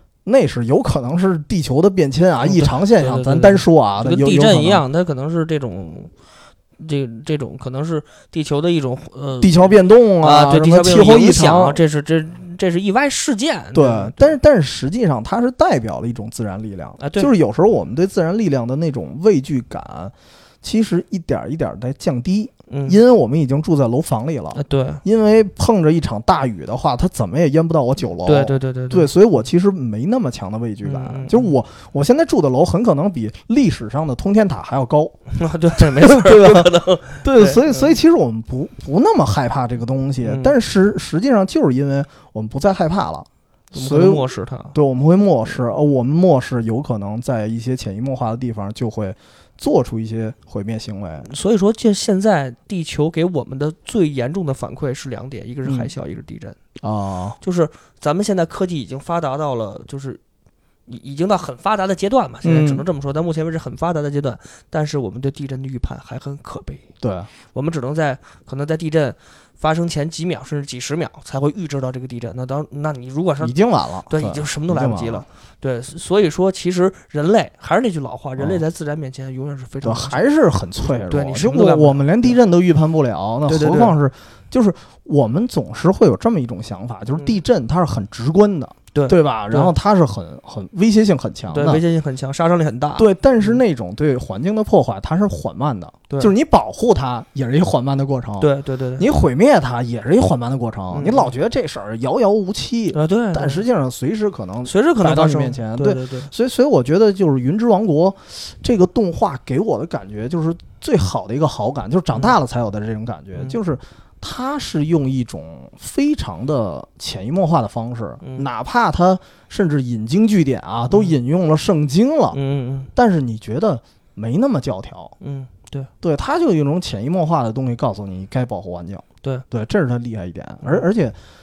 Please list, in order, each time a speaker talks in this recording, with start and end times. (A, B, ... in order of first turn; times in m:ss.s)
0:00.2-0:04.8 A
0:02.4-0:06.1 B
0:06.8-0:14.4 B
0:09.4-0:11.8 A
0:13.7-0:35.2 A
0:17.0-0:17.3 B
0:22.7-0:23.0 B
0:24.6-0:25.0 B
0:28.2-0:29.1 B
0:30.8-0:31.5 B
0:35.3-0:38.0 B
0:35.8-0:51.3 A
0:40.2-0:40.6 B
0:43.7-0:44.8 B
0:51.2-0:56.6 B
0:55.6-0:55.9 A
0:56.8-0:57.4 A
0:57.4-1:00.2 B
1:00.9-1:06.8 B
1:02.4-1:02.8 A
1:07.0-1:07.3 A
1:07.5-1:13.6 B
1:13.4-1:15.2 A
1:14.1-1:20.2 B
1:18.4-1:18.6 A
1:19.8-1:31.8 A
1:20.9-1:22.4 B
1:23.5-1:24.0 B
1:28.9-1:29.7 B
1:31.5-1:33.6 B
1:33.0-2:02.4 A
1:38.4-1:39.1 B
1:40.9-1:41.3 B
1:42.9-1:43.6 B
1:44.6-1:46.3 B
2:00.9-2:01.2 B
2:02.3-2:02.9 B
2:02.9-2:05.1 A
2:05.2-2:05.9 B
2:06.0-2:11.2 A